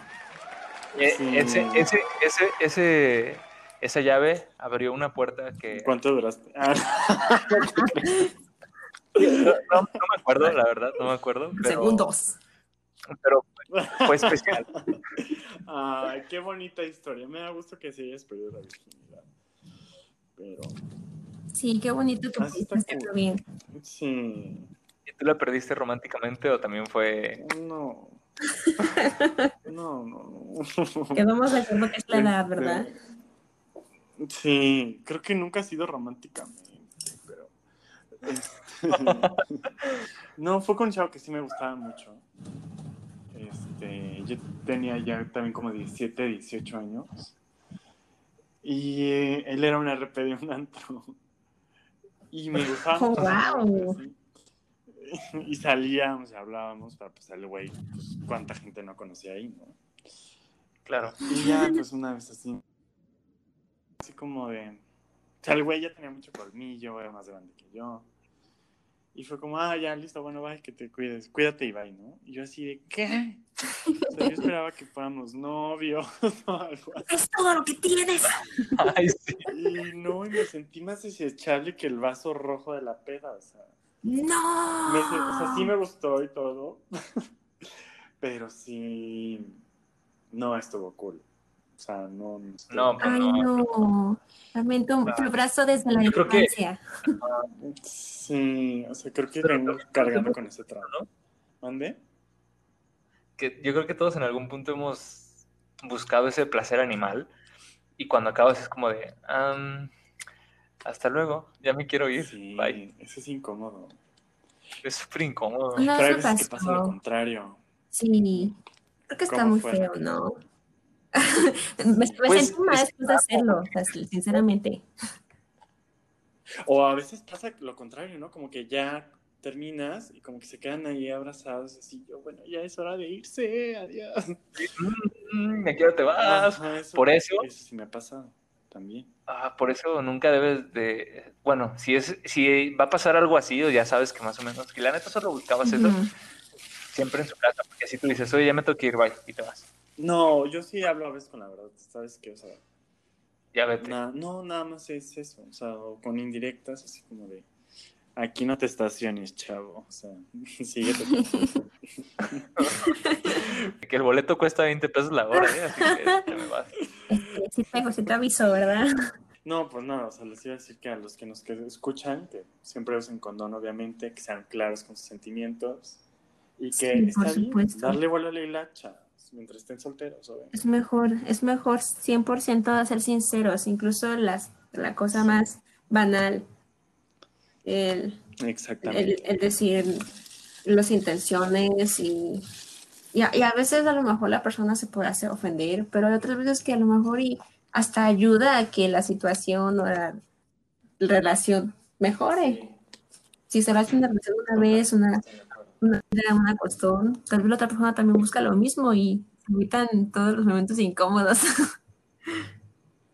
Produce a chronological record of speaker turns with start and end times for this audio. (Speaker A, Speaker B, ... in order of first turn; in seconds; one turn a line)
Speaker A: 0.9-5.9
Speaker B: 1.1-1.9
Speaker B: 5.7-8.2
Speaker C: 7.8-8.3
Speaker B: 9.2-9.8
Speaker A: 9.4-12.1
Speaker C: 11.6-12.4
Speaker A: 13.2-14.7
Speaker B: 13.7-19.3
Speaker B: 20.4-20.8
Speaker C: 21.5-23.4
Speaker B: 22.4-23.1
Speaker B: 23.7-24.7
Speaker A: 25.1-27.4
Speaker B: 27.4-28.2
Speaker C: 28.7-29.3
Speaker B: 29.7-31.2
Speaker C: 31.1-32.9
Speaker B: 32.1-33.0
Speaker B: 34.2-37.5
Speaker B: 38.1-39.6
Speaker A: 38.9-39.3
Speaker B: 40.4-42.2
Speaker B: 43.3-47.4
Speaker B: 48.6-51.2
Speaker B: 52.3-54.2
Speaker C: 53.0-54.0
Speaker B: 54.9-59.8
Speaker A: 60.9-61.2
Speaker B: 61.2-62.6
Speaker C: 61.4-61.8
Speaker B: 64.0-64.8
Speaker B: 65.4-68.1
Speaker B: 69.1-73.4
Speaker B: 74.1-77.1
Speaker C: 77.1-78.8
Speaker A: 78.8-79.5
Speaker B: 79.5-83.8
Speaker C: 84.0-85.7
Speaker B: 84.8-87.3
Speaker B: 88.2-89.6
Speaker B: 90.3-91.2
Speaker B: 91.8-93.0
Speaker A: 92.7-93.6
Speaker C: 93.0-97.1
Speaker B: 95.0-95.4
Speaker A: 96.0-96.5
Speaker A: 97.2-97.5
Speaker B: 97.6-100.9
Speaker A: 99.4-101.1
Speaker B: 101.6-102.0
Speaker A: 103.4-107.3
Speaker A: 108.0-109.9
Speaker A: 110.8-112.8
Speaker B: 112.2-114.0
Speaker A: 114.8-115.9
Speaker C: 115.8-117.0
Speaker B: 116.0-117.6
Speaker C: 117.9-118.6
Speaker C: 119.1-120.4
Speaker B: 119.3-120.0
Speaker C: 121.2-124.8
Speaker B: 121.8-122.2
Speaker A: 122.3-124.4
Speaker B: 126.6-134.4
Speaker A: 134.6-137.5
Speaker B: 136.2-139.1
Speaker A: 139.3-146.0
Speaker C: 145.6-146.1
Speaker A: 146.9-149.7
Speaker B: 150.0-152.6
Speaker A: 153.5-154.0
Speaker B: 153.8-157.5
Speaker B: 158.2-161.6
Speaker B: 162.2-162.5
Speaker A: 162.6-162.9
Speaker C: 162.8-163.4
Speaker A: 163.8-166.7
Speaker C: 165.4-166.2
Speaker C: 167.1-168.9
Speaker B: 169.4-176.0
Speaker B: 176.6-180.6
Speaker C: 176.8-178.0
Speaker C: 180.5-186.4
Speaker B: 185.1-185.4
Speaker C: 187.7-188.2
Speaker B: 188.4-189.2
Speaker C: 188.8-190.1
Speaker C: 190.7-192.5
Speaker C: 193.1-200.2
Speaker C: 201.0-202.6
Speaker B: 202.3-202.8
Speaker C: 203.5-205.2
Speaker B: 204.6-205.8
Speaker C: 205.8-211.5